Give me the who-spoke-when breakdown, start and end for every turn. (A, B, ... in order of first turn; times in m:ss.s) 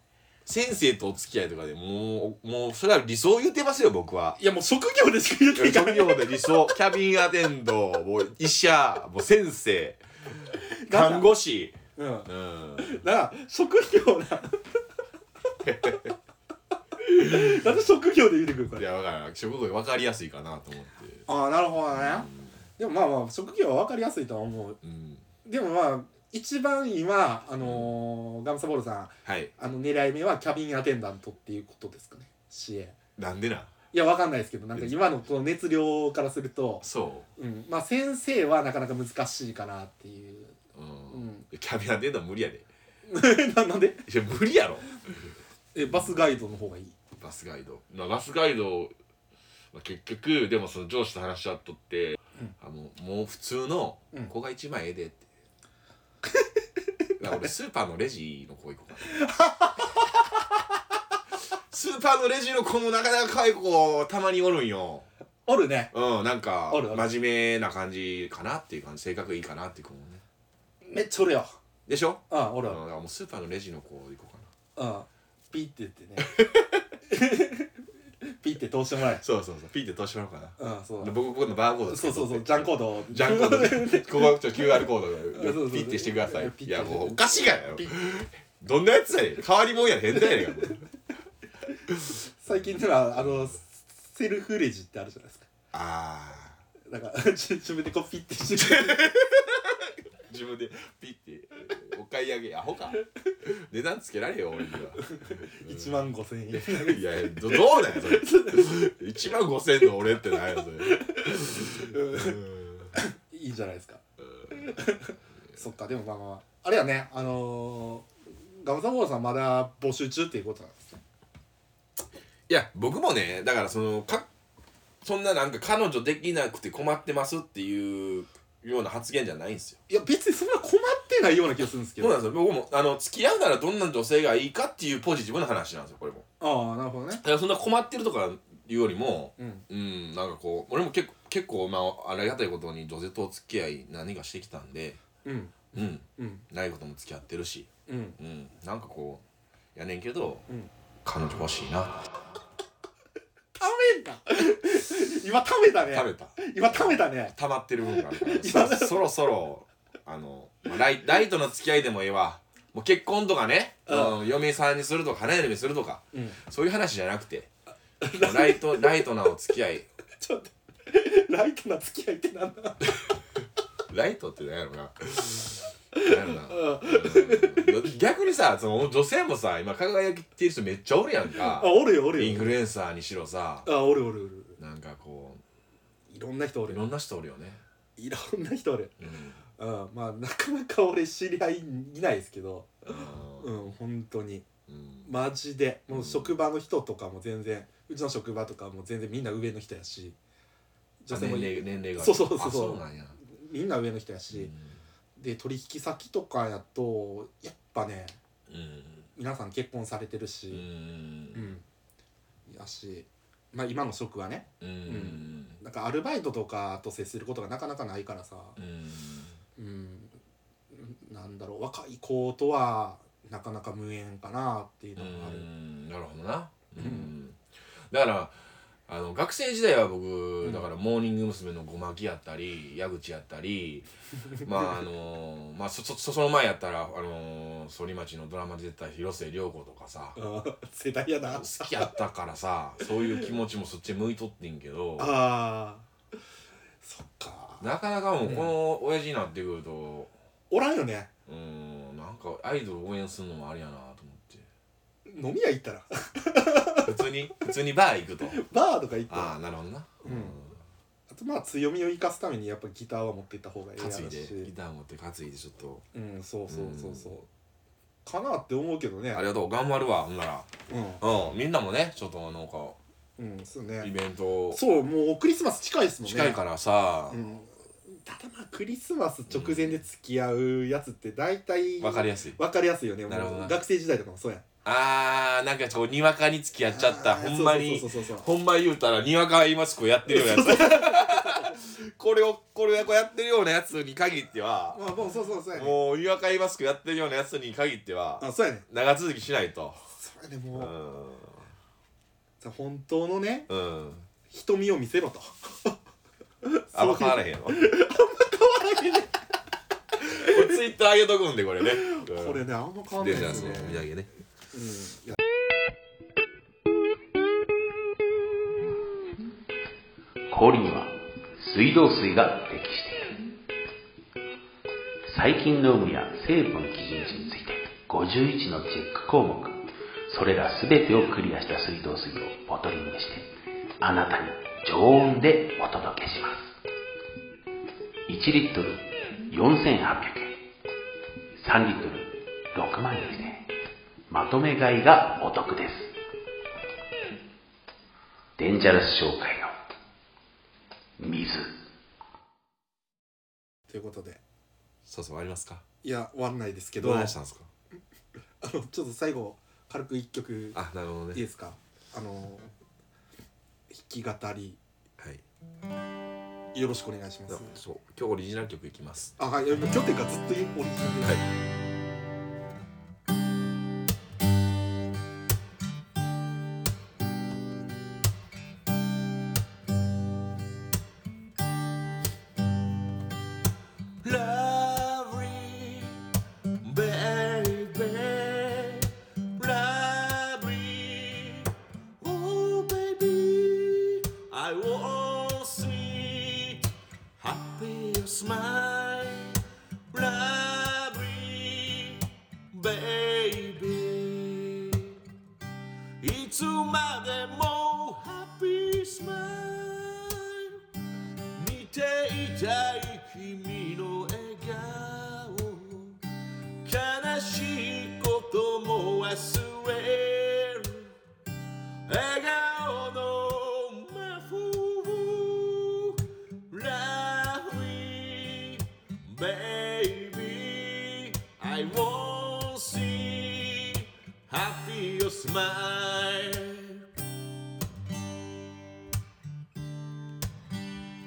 0:00.4-0:04.4 A
0:04.4-0:06.7 B
0:05.6-0:10.0 A
0:10.5-0:11.3 B
0:10.9-0:11.8 A
0:12.0-0:14.8 B
0:12.3-0:13.0 A
0:15.6-0:16.1 A
0:17.0-0:18.9 B
0:17.3-0:17.7 A
0:18.8-0:21.3 A
0:21.3-0:24.8 B
0:21.9-0:22.6 A
0:24.8-0:25.2 A
0:25.4-0:33.0 B
0:27.6-0:28.0 A
0:29.2-0:29.5 A
0:33.2-0:33.7 A
0:33.9-0:36.9 B
0:36.8-0:37.3 A
0:37.4-0:40.6 B
0:40.8-0:42.7 A
0:41.1-0:41.5 B
0:43.1-0:44.0 B
0:44.1-0:45.3 A
0:45.7-0:47.0 B
0:47.2-0:48.9 A
0:49.7-0:55.2 A
0:57.2-0:59.2 A
0:59.0-1:00.2 B
1:01.7-1:05.1 A
1:05.5-1:05.9 B
1:05.9-1:10.2 A
1:06.7-1:07.1 B
1:10.8-1:11.6 B
1:11.9-1:14.5 A
1:12.3-1:12.8 B
1:14.8-1:16.4 B
1:16.2-1:16.7 A
1:17.1-1:17.7 B
1:18.3-1:19.2 B
1:19.2-1:30.8 A
1:20.6-1:21.2 B
1:21.9-1:28.0 B
1:30.2-1:30.8 B
1:32.4-1:35.5 B
1:35.7-1:36.6 A
1:36.9-1:39.2 B
1:38.6-1:52.9 A
1:45.0-1:48.9 B
1:50.3-1:52.4 B
1:52.9-2:01.0 B
2:02.5-2:04.3 A
2:05.0-2:09.8 A
2:09.9-2:12.2 B
2:12.0-2:16.2 A
2:16.4-2:17.2 B
2:17.1-2:25.0 A
2:19.4-2:19.6 B
2:25.2-2:26.4 B
2:25.7-2:29.2 A
2:27.9-2:28.2 B
2:29.8-2:30.4 A
2:31.0-2:32.0 A
2:33.6-2:37.4 B
2:35.9-2:47.5 A
2:37.9-2:39.0 B
2:43.9-2:44.2 B
2:46.1-2:46.4 B
2:48.0-2:49.1 B
2:48.1-2:49.9 A
2:50.2-2:52.8 B
2:53.9-3:03.7 A
2:55.9-2:57.9 B
3:01.4-3:02.6 B
3:03.6-3:04.6 B
3:04.6-3:05.4 A
3:06.1-3:06.8 B
3:06.7-3:07.6 A
3:08.0-3:09.0 B
3:09.0-3:09.4 A
3:09.6-3:14.5 B
3:12.9-3:13.5 A
3:14.7-3:15.1 A
3:15.0-3:20.2 B
3:15.9-3:16.4 A
3:21.0-3:24.5 B
3:21.1-3:23.2 A
3:24.3-3:24.8 A
3:25.2-3:28.2 B
3:28.5-3:29.1 A
3:29.2-3:30.7 B
3:30.5-3:31.5 A
3:31.3-3:31.6 B
3:32.5-3:38.6 B
3:34.6-3:35.6 A
3:38.6-3:39.4 A
3:39.6-3:40.2 B
3:40.7-3:45.5 B
3:45.0-3:53.9 A
3:46.8-3:47.1 B
3:50.4-3:50.7 B
3:54.4-3:54.8 B
3:54.4-4:00.2 A
4:00.2-4:02.0 B
4:01.3-4:05.2 A
4:05.0-4:05.9 B
4:06.8-4:07.7 B
4:07.6-4:10.1 A
4:08.2-4:08.5 B
4:10.5-4:11.1 B
4:11.3-4:14.5 A
4:15.1-4:17.1 B
4:16.8-4:18.4 A
4:18.3-4:19.4 B
4:19.1-4:20.6 A
4:20.0-4:20.4 B
4:21.1-4:24.5 B
4:23.8-4:25.8 A
4:25.9-4:27.3 B
4:26.5-4:27.1 A
4:28.0-4:29.2 B
4:29.1-4:32.8 A
4:30.7-4:31.0 B
4:33.2-4:33.9 B
4:33.8-4:34.6 A
4:34.5-4:36.4 B
4:36.0-4:37.3 A
4:37.1-4:44.4 B
4:39.3-4:39.8 A
4:41.8-4:42.4 A
4:43.1-4:43.6 A
4:44.6-4:55.0 A
4:46.7-4:48.3 B
4:50.1-4:51.6 B
4:54.7-4:55.8 B
4:55.5-4:59.8 A
4:58.2-4:58.7 B
5:00.0-5:00.8 B
5:00.5-5:01.4 A
5:02.4-5:03.5 B
5:03.5-5:04.1 A
5:04.3-5:05.8 B
5:06.4-5:09.2 B
5:06.7-5:07.7 A
5:10.1-5:14.1 A
5:10.1-5:10.4 B
5:11.8-5:13.9 B
5:14.5-5:15.2 B
5:20.3-5:23.3 C
5:25.1-5:36.5 C
5:38.1-5:40.4 C
5:41.4-5:43.5 C
5:44.1-5:46.0 C
5:48.4-5:49.5 C
5:51.0-5:51.5 C
5:53.7-5:54.2 B
5:54.8-5:55.6 A
5:55.8-5:57.2 B
5:56.8-5:57.5 A
5:58.4-6:00.6 B
6:00.5-6:01.2 A
6:01.1-6:02.5 B
6:03.7-6:04.6 B
6:06.5-6:07.6 B
6:07.3-6:09.2 A
6:09.2-6:11.3 B
6:24.0-6:26.0 A
6:26.6-6:36.7 A
6:37.2-6:39.4 A
6:39.9-6:45.0 A
6:46.0-6:50.5 A
6:51.3-6:56.0 A
6:56.6-7:00.9 A
7:01.9-7:06.0 A
7:06.5-7:16.8 A